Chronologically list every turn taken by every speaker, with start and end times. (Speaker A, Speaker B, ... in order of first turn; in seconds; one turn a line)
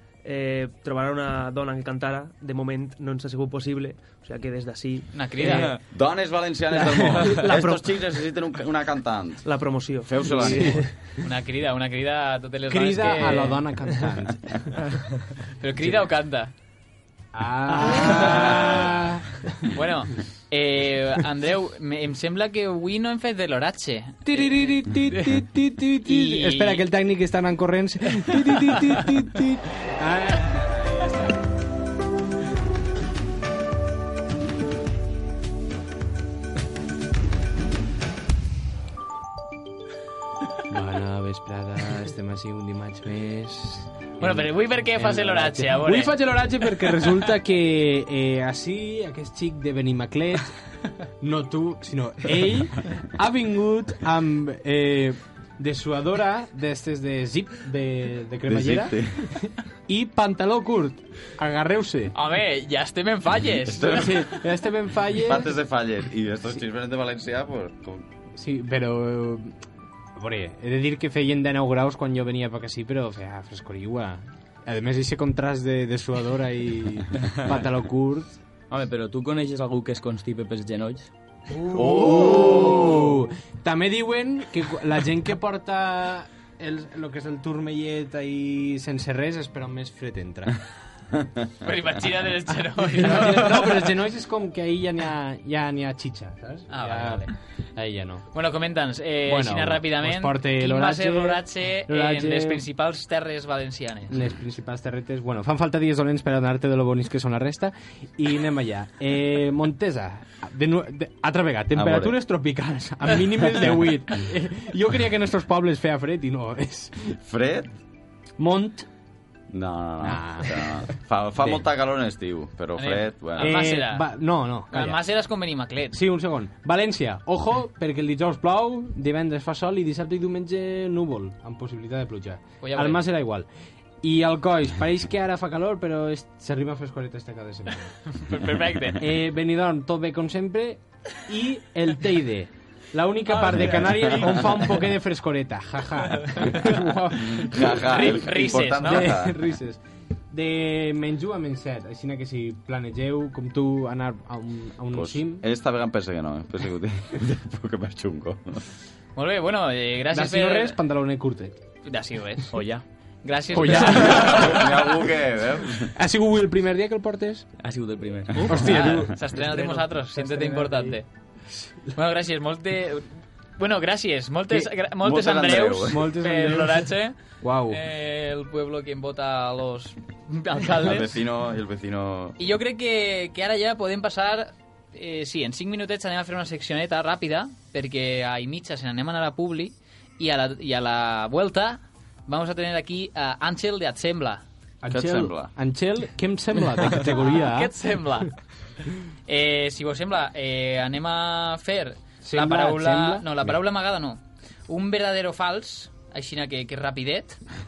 Speaker A: 0.2-5.8
Speaker B: 5.1-5.8
Speaker C: 5.7-10.8
Speaker A: 6.8-7.8
Speaker A: 9.4-10.9
Speaker D: 10.3-10.8
Speaker B: 11.2-13.6
Speaker D: 12.7-14.6
Speaker B: 15.6-16.5
Speaker D: 17.3-19.5
Speaker A: 17.7-18.5
Speaker B: 18.0-18.6
Speaker B: 19.7-25.4
Speaker D: 24.2-31.3
Speaker B: 26.1-26.8
Speaker D: 40.7-50.6
Speaker B: 44.2-46.1
Speaker D: 51.2-62.1
Speaker C: 58.5-59.2
Speaker B: 62.1-64.3
Speaker C: 63.7-64.4
Speaker D: 63.9-65.6
Speaker C: 65.2-68.1
Speaker D: 68.4-69.6
Speaker D: 70.2-78.4
Speaker E: 78.7-81.1
Speaker D: 81.5-90.5
Speaker C: 81.7-83.1
Speaker B: 91.6-93.9
Speaker D: 92.8-98.3
Speaker B: 96.7-97.3
Speaker B: 98.3-104.1
Speaker D: 99.2-102.6
Speaker D: 104.1-117.2
Speaker C: 111.7-112.2
Speaker C: 117.2-117.7
Speaker D: 118.4-118.9
Speaker C: 119.5-123.7
Speaker D: 120.0-121.7
Speaker B: 122.8-126.0
Speaker D: 123.4-125.0
Speaker D: 125.9-133.5
Speaker B: 132.6-133.0
Speaker D: 134.0-137.9
Speaker B: 138.1-139.0
Speaker D: 139.0-148.2
Speaker B: 143.3-144.7
Speaker B: 146.3-146.7
Speaker C: 147.3-149.4
Speaker B: 147.9-149.1
Speaker D: 148.8-155.4
Speaker C: 154.9-158.6
Speaker B: 159.2-160.8
Speaker D: 160.1-161.6
Speaker B: 161.8-162.6
Speaker E: 162.5-162.8
Speaker B: 163.2-164.6
Speaker D: 163.5-164.8
Speaker C: 163.8-165.9
Speaker D: 165.9-167.5
Speaker E: 167.6-168.6
Speaker D: 168.4-171.0
Speaker B: 168.4-171.1
Speaker D: 171.5-171.9
Speaker B: 171.9-181.2
Speaker C: 174.9-176.1
Speaker D: 175.9-177.8
Speaker C: 180.7-182.4
Speaker B: 182.4-194.4
Speaker D: 194.8-197.7
Speaker C: 194.9-195.6
Speaker B: 196.9-198.3
Speaker B: 199.3-207.4
Speaker D: 202.2-203.4